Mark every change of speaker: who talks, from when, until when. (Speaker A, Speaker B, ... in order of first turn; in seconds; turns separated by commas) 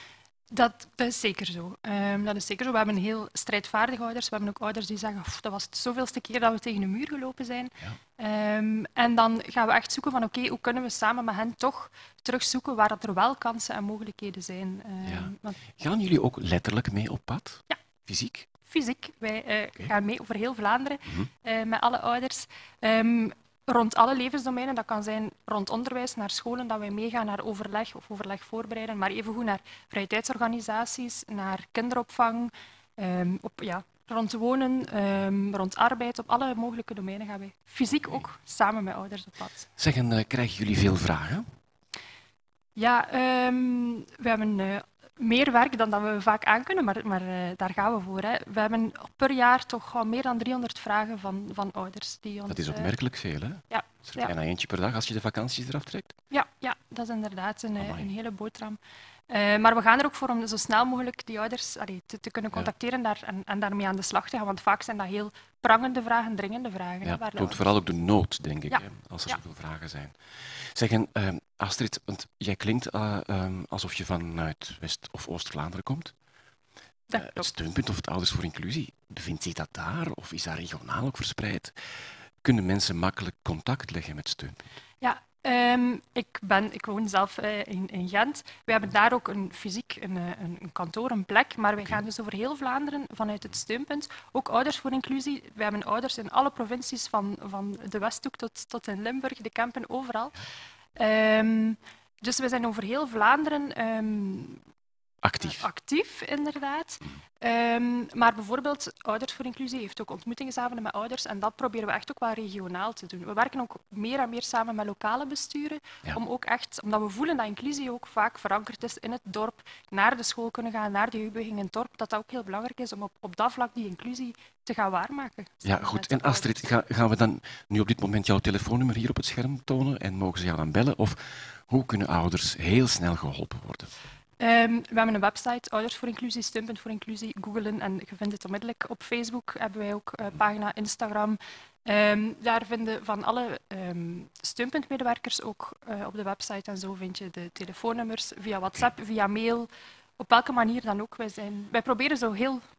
Speaker A: 0.5-15.6, Speaker B: 15.0-18.5, Speaker A: 18.6-39.7, Speaker B: 39.8-41.5, Speaker A: 42.8-52.9, Speaker B: 52.5-56.2, Speaker A: 53.7-54.3, Speaker A: 56.3-67.7, Speaker B: 57.8-58.1, Speaker B: 67.0-76.1, Speaker A: 68.7-69.4, Speaker A: 77.1-77.5, Speaker B: 77.2-81.8, Speaker B: 82.4-84.6, Speaker A: 85.0-100.4, Speaker A: 101.0-104.6, Speaker B: 105.2-105.7, Speaker A: 105.4-126.6, Speaker B: 125.6-133.9, Speaker A: 134.4-152.6